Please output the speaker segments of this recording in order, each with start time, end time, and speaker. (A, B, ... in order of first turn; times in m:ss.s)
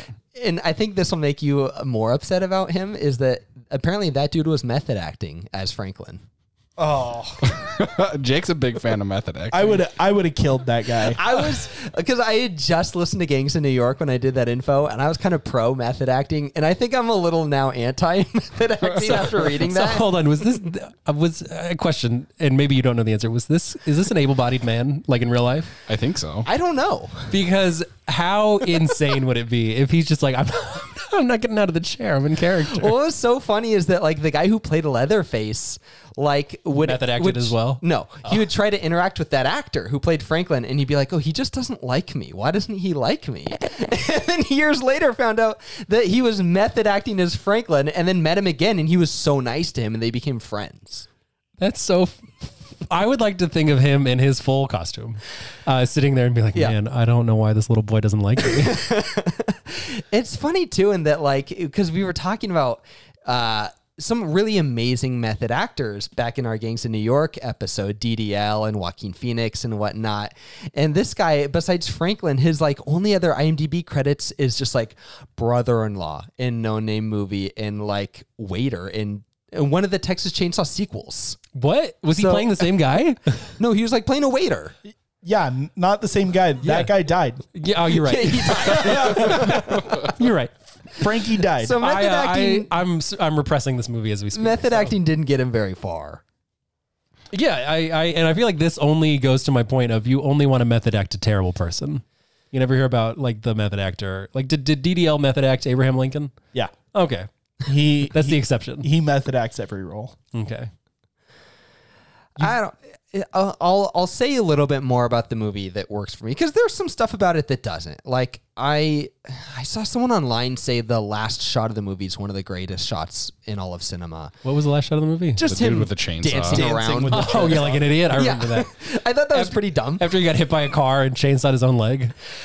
0:00.3-0:06.2 A
0:06.8-0:07.5 B
0:07.4-0:09.8 C
0:09.5-0:11.2 B
0:11.0-0:20.1 A
0:18.9-0:25.7 D
0:25.9-0:26.5 C
0:26.4-0:27.3 A
0:27.3-0:32.9 D
0:32.7-0:51.1 A
0:36.8-0:38.4 D
0:51.6-0:58.8 D
0:58.4-1:21.4 A
1:21.5-1:23.5 D
1:22.2-1:22.7 A
1:23.6-1:24.7 A
1:25.2-1:27.4 B
1:26.6-1:26.9 D
1:27.5-1:30.5 D
1:27.9-1:30.1 A
1:28.8-1:29.6 B
1:31.0-1:31.8 B
1:31.5-1:32.7 A
1:31.8-1:34.9 D
1:34.3-1:36.2 A
1:37.3-1:46.3 D
1:46.9-1:47.3 D
1:47.6-1:50.2 B
1:48.1-1:48.9 D
1:50.3-1:50.7 D
1:52.4-2:04.3 A
2:04.4-2:05.4 D
2:05.4-2:10.1 A
2:05.4-2:06.7 C
2:06.5-2:07.8 B
2:07.1-2:08.7 D
2:09.3-2:12.1 D